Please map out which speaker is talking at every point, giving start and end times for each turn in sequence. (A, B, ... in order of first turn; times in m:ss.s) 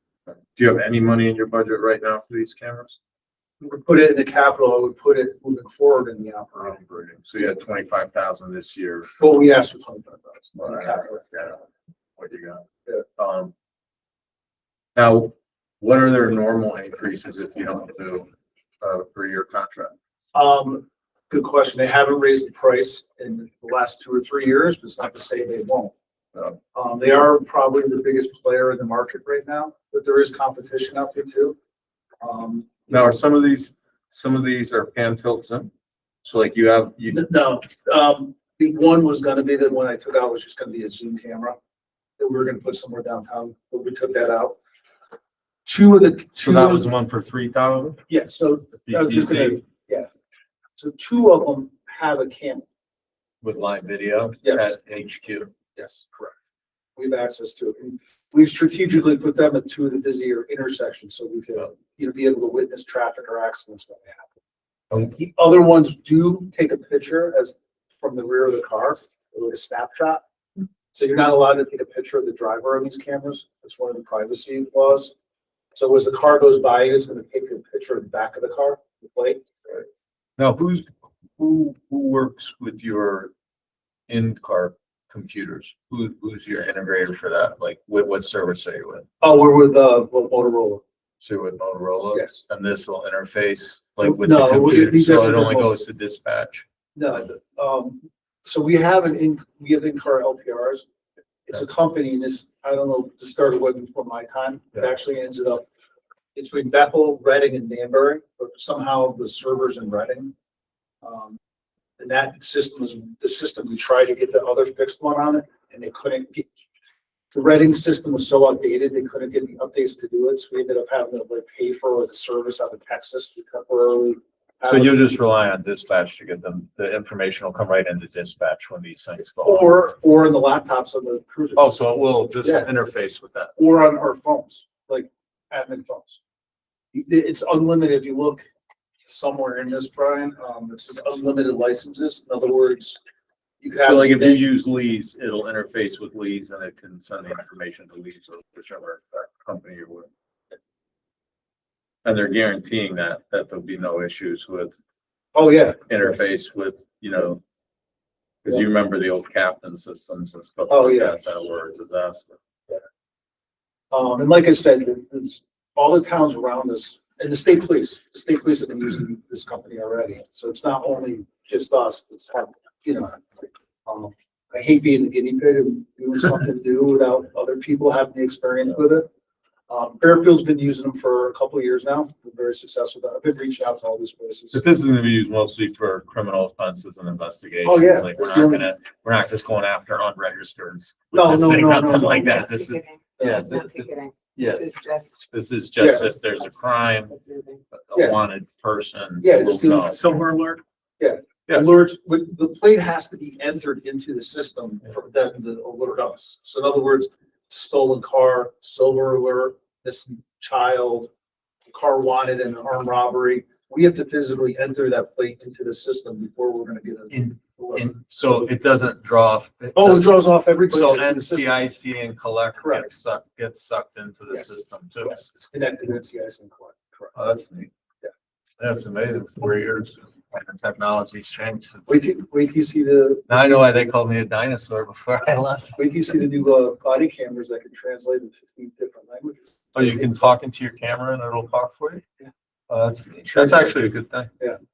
0:00.5-0:03.0 A
0:03.6-0:06.8 B
0:06.6-0:09.1 A
0:09.2-0:11.3 B
0:10.6-0:11.6 A
0:12.2-0:12.6 A
0:13.2-0:13.5 A
0:15.0-0:18.3 A
0:18.8-0:20.0 A
0:20.3-0:25.9 B
0:26.7-0:31.6 B
0:32.2-0:33.0 B
0:32.9-0:35.7 A
0:36.2-0:37.2 A
0:37.1-0:41.6 B
0:42.2-0:44.6 B
0:45.7-0:46.9 B
0:46.4-0:48.0 A
0:48.1-0:50.1 B
0:48.8-0:49.6 A
0:50.8-0:52.7 B
0:53.4-0:55.5 A
0:54.4-0:54.7 B
0:55.8-0:56.4 B
0:57.0-1:04.4 B
1:05.0-1:10.2 B
1:10.9-1:15.1 B
1:15.7-1:19.5 B
1:20.4-1:23.3 A
1:24.1-1:29.1 A
1:29.2-1:30.8 B
1:31.2-1:36.6 A
1:32.1-1:32.4 B
1:34.0-1:35.7 B
1:37.0-1:40.9 B
1:41.5-1:45.6 B
1:46.4-1:50.3 B
1:51.0-1:51.4 B
1:52.0-1:56.5 B
1:57.3-2:05.0 B
2:04.7-2:09.8 A
2:09.4-2:11.8 B
2:11.6-2:13.5 A
2:12.4-2:12.7 B
2:13.6-2:16.2 B
2:16.9-2:18.4 B
2:19.0-2:23.0 B
2:23.6-2:24.4 B
2:23.8-2:30.1 A
2:32.0-2:34.8 A
2:35.3-2:35.8 B
2:35.9-2:37.4 A
2:38.4-2:42.4 A
2:40.7-2:41.2 B
2:43.9-2:59.1 B
2:59.7-3:04.6 B
3:04.5-3:13.7 A
3:07.6-3:08.7 B
3:11.1-3:12.5 B
3:12.3-3:15.3 C
3:13.2-3:13.7 B
3:14.4-3:14.7 A
3:15.3-3:17.2 A
3:15.8-3:16.1 B
3:17.1-3:17.6 C
3:17.7-3:20.2 A
3:19.2-3:31.1 B
3:31.7-3:38.0 B
3:37.1-3:45.3 A
3:39.8-3:41.5 B
3:42.6-3:42.9 B
3:44.3-3:47.2 B
3:47.2-3:47.7 A
3:48.6-3:52.0 A
3:51.9-3:53.6 B
3:53.3-3:55.8 A
3:55.7-4:00.1 B
3:59.7-4:02.0 A
4:02.7-4:04.3 A
4:03.2-4:03.7 B